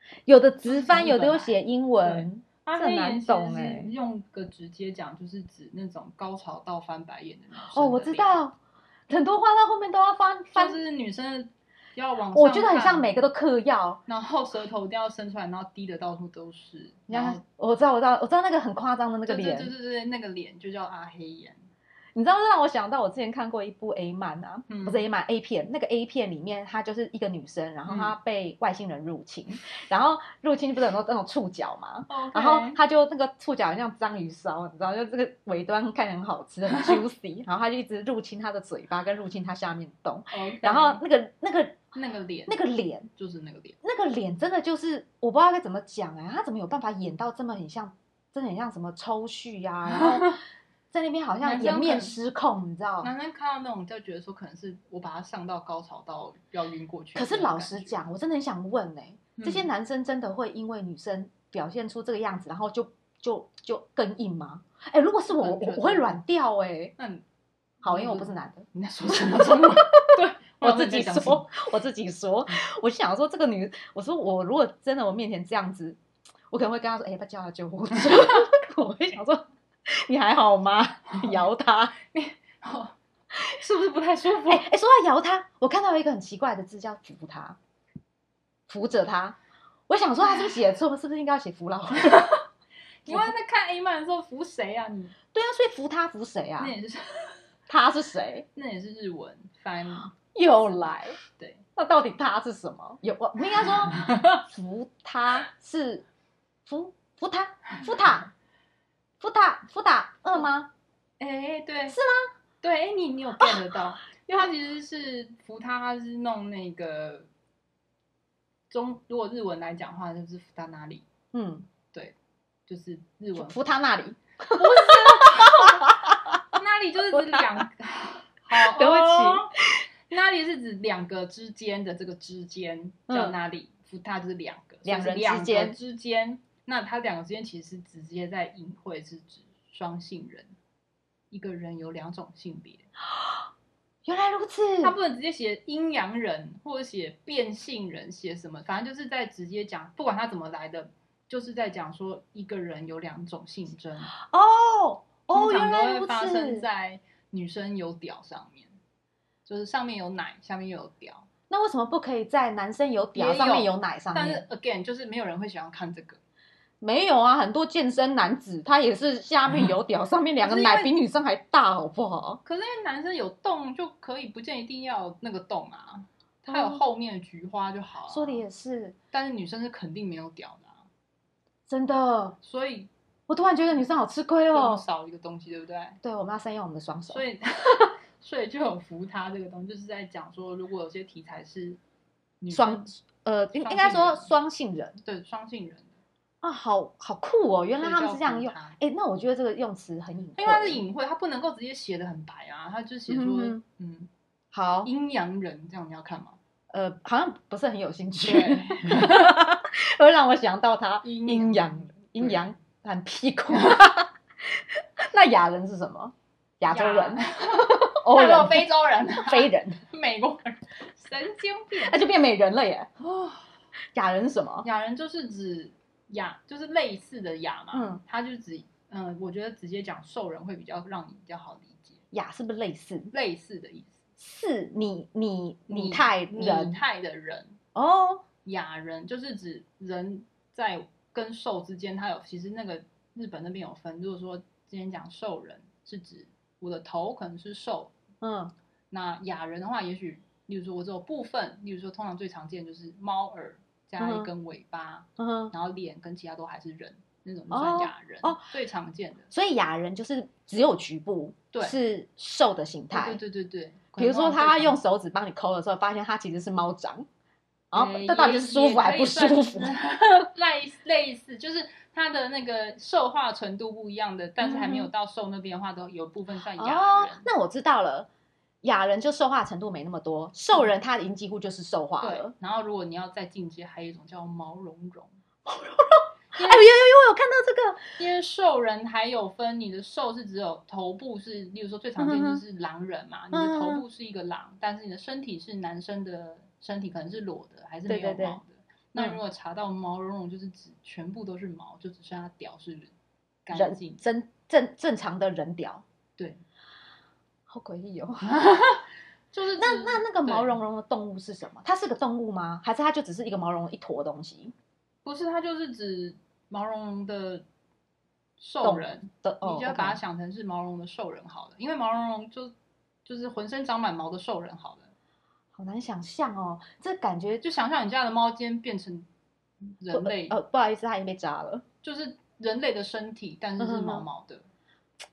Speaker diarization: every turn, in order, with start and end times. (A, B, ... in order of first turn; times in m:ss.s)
0:00.2-0:03.9 A
0:00.6-0:08.4 B
0:07.7-0:08.6 A
0:09.1-0:10.8 A
0:10.5-0:13.1 B
0:12.3-0:14.0 A
0:14.1-0:17.4 B
0:17.1-0:19.7 A
0:19.2-0:21.6 B
0:22.1-0:41.8 A
0:24.7-0:25.0 B
0:27.8-0:28.1 B
0:32.1-0:32.8 B
0:40.3-0:41.0 B
0:41.9-0:42.6 B
0:42.5-0:43.1 A
0:43.2-0:43.8 B
0:43.8-0:50.4 A
0:49.9-0:50.4 B
0:50.9-0:53.1 A
0:51.4-0:52.2 B
0:53.0-0:58.0 B
0:57.1-1:06.9 A
0:59.4-0:59.7 B
1:05.3-1:06.2 B
1:07.0-1:07.2 B
1:07.8-1:08.7 A
1:07.8-1:11.5 B
1:09.3-1:21.9 A
1:21.1-1:21.4 B
1:22.0-1:24.6 B
1:24.5-1:27.6 A
1:28.7-1:29.4 A
1:29.9-1:32.3 A
1:32.0-1:32.4 B
1:33.0-1:35.1 B
1:35.3-1:36.7 A
1:36.6-1:37.4 B
1:37.7-1:38.4 A
1:38.5-1:40.1 B
1:40.3-1:41.2 A
1:41.4-1:41.6 B
1:41.8-1:46.0 A
1:43.6-1:44.4 B
1:46.6-1:48.3 A
1:49.2-1:50.7 A
1:51.2-1:52.0 B
1:51.9-1:52.3 A
1:52.6-1:57.3 B
1:58.7-2:01.0 B
2:01.3-2:01.7 A
2:02.7-2:03.6 B
2:03.4-2:06.4 A
2:04.5-2:05.9 B
2:06.5-2:09.5 B
2:07.1-2:07.6 A
2:08.6-2:09.8 A
2:10.1-2:20.5 B
2:13.1-2:13.4 A
2:14.8-2:15.8 A
2:21.3-2:22.9 B
2:23.1-2:23.4 A
2:24.0-2:25.0 A
2:24.8-2:34.1 B
2:34.1-2:36.6 A
2:35.3-2:38.8 B
2:39.4-2:41.3 B
2:41.5-2:44.4 A
2:43.1-2:46.2 B
2:46.8-2:52.4 A
2:50.4-2:50.9 B
2:52.4-2:58.4 B
2:56.4-2:56.8 A
2:58.1-2:59.0 A
2:59.1-3:00.8 B
3:01.7-3:02.4 A
3:02.4-3:02.9 B
3:03.3-3:04.8 A
3:04.5-3:06.0 B
3:06.0-3:07.2 A
3:07.1-3:11.8 B
3:12.4-3:12.9 B
3:12.5-3:15.0 A
3:13.5-3:14.3 B
3:15.0-3:16.0 B
3:16.4-3:20.8 A
3:17.8-3:18.8 B
3:20.4-3:24.1 B
3:23.1-3:23.6 A
3:24.5-3:24.9 A
3:24.8-3:26.4 B
3:26.7-3:39.8 A
3:28.2-3:29.3 B
3:31.0-3:32.4 B
3:33.5-3:33.8 B
3:36.7-3:42.0 B
3:41.8-3:42.9 A
3:43.0-3:43.5 B
3:43.9-3:44.7 A
3:44.6-3:52.0 B
3:47.7-3:48.0 A
3:52.1-3:53.1 A
3:53.1-3:54.0 B
3:54.2-3:56.8 A
3:55.7-3:57.6 B
3:57.7-3:58.2 A
3:58.4-4:07.9 B
4:08.2-4:08.5 A
4:08.9-4:19.3 B
4:14.0-4:14.3 A
4:15.2-4:15.5 A
4:17.5-4:18.4 A
4:19.3-4:23.2 A
4:22.9-4:24.8 B
4:24.0-4:27.1 A
4:27.7-4:29.7 A
4:27.7-4:37.3 B
4:34.4-4:34.9 A
4:36.6-4:38.1 A
4:38.6-4:42.3 A
4:42.0-4:45.1 B
4:45.4-4:48.0 A
4:46.3-4:46.7 B
4:48.0-5:02.9 B
4:52.0-4:52.4 A
4:53.3-4:53.8 A
4:57.9-4:58.4 A
5:03.4-5:04.0 B
5:03.5-5:05.8 A
5:07.5-5:08.3 A
5:08.2-5:10.6 B
5:09.6-5:14.5 A
5:15.0-5:17.4 B
5:18.4-5:22.5 B
5:18.6-5:20.0 A
5:23.0-5:24.9 B
5:25.5-5:27.4 A
5:27.4-5:29.1 B
5:29.8-5:30.4 B
5:29.9-5:31.6 A
5:31.8-5:34.5 B
5:33.6-5:34.0 A